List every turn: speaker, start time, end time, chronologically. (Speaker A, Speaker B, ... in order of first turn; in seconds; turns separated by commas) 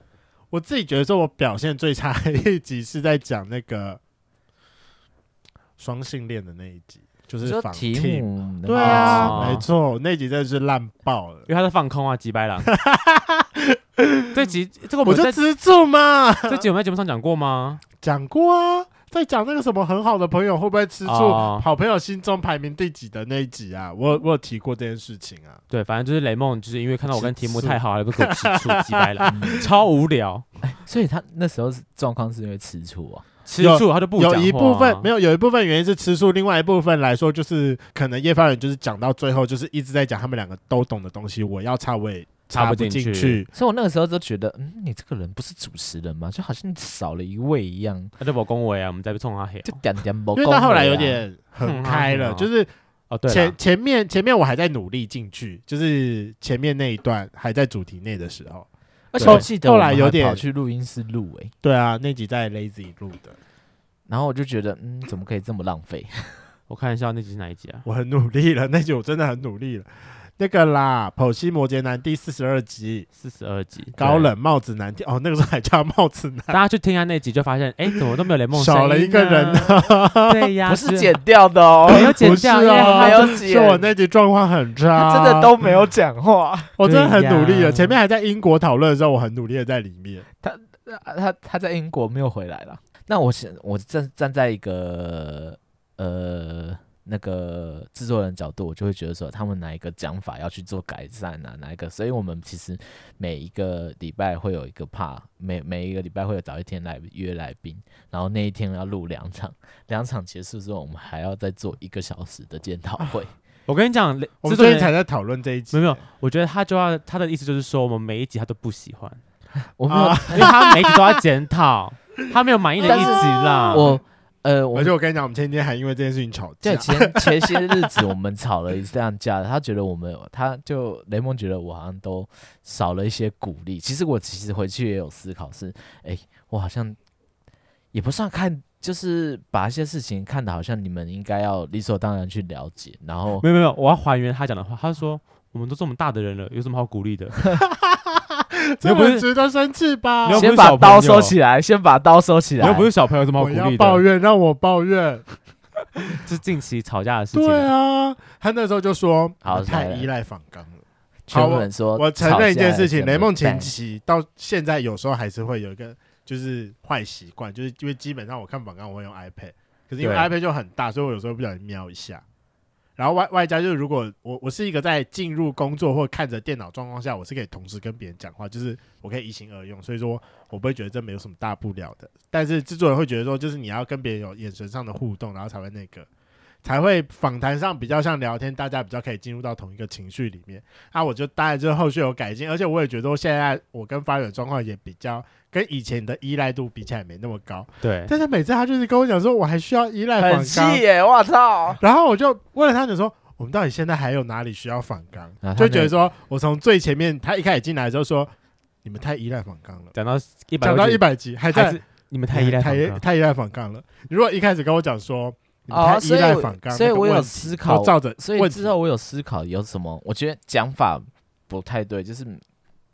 Speaker A: 0.5-4.0, Speaker A: 5.8-11.5, Speaker B: 7.4-9.6, Speaker C: 8.7-9.7, Speaker C: 11.5-12.7, Speaker A: 12.7-14.4, Speaker C: 14.3-15.4, Speaker A: 15.1-16.7, Speaker C: 16.5-17.8, Speaker A: 18.0-25.6, Speaker C: 21.0-21.7, Speaker C: 25.7-30.4, Speaker A: 27.1-29.6, Speaker B: 29.3-29.7, Speaker B: 30.6-33.3, Speaker C: 33.5-35.1, Speaker A: 33.6-43.5, Speaker C: 42.5-43.4, Speaker B: 43.5-48.1, Speaker C: 48.2-49.8, Speaker B: 49.7-51.2, Speaker A: 50.3-52.7, Speaker C: 51.6-52.5, Speaker C: 53.1-53.6, Speaker A: 53.3-58.7, Speaker B: 59.1-61.5, Speaker C: 59.2-59.4, Speaker A: 59.2-60.4, Speaker A: 61.6-63.4, Speaker B: 64.1-66.5, Speaker C: 66.7-67.8, Speaker A: 67.8-73.1, Speaker C: 73.2-74.3, Speaker A: 74.0-76.6, Speaker C: 76.5-81.2, Speaker A: 78.5-80.5, Speaker B: 80.7-83.9, Speaker C: 81.9-83.3, Speaker A: 81.9-85.5, Speaker B: 84.9-86.8, Speaker A: 86.8-90.3, Speaker C: 86.8-88.0, Speaker B: 90.4-113.3, Speaker C: 113.7-114.9, Speaker A: 114.4-116.0, Speaker C: 115.7-119.2, Speaker B: 119.8-120.6, Speaker A: 119.9-121.0, Speaker C: 120.3-123.9, Speaker A: 122.8-124.0, Speaker B: 122.8-124.9, Speaker A: 124.7-128.1, Speaker B: 126.6-137.0, Speaker B: 137.9-143.4, Speaker C: 143.4-147.4, Speaker A: 147.9-150.5, Speaker C: 148.8-149.2, Speaker C: 150.2-151.3, Speaker B: 150.3-152.9, Speaker C: 152.6-154.0, Speaker A: 153.4-155.3, Speaker C: 156.2-157.7, Speaker A: 157.3-172.2, Speaker B: 159.4-160.1, Speaker B: 161.3-163.7, Speaker C: 170.0-170.3, Speaker A: 173.0-186.1, Speaker A: 186.6-200.8, Speaker C: 197.8-198.1, Speaker B: 200.2-201.8, Speaker A: 201.8-208.3, Speaker B: 205.4-205.9, Speaker A: 208.8-209.9, Speaker C: 209.9-213.0, Speaker A: 210.6-211.8, Speaker A: 212.3-218.7, Speaker B: 215.7-222.4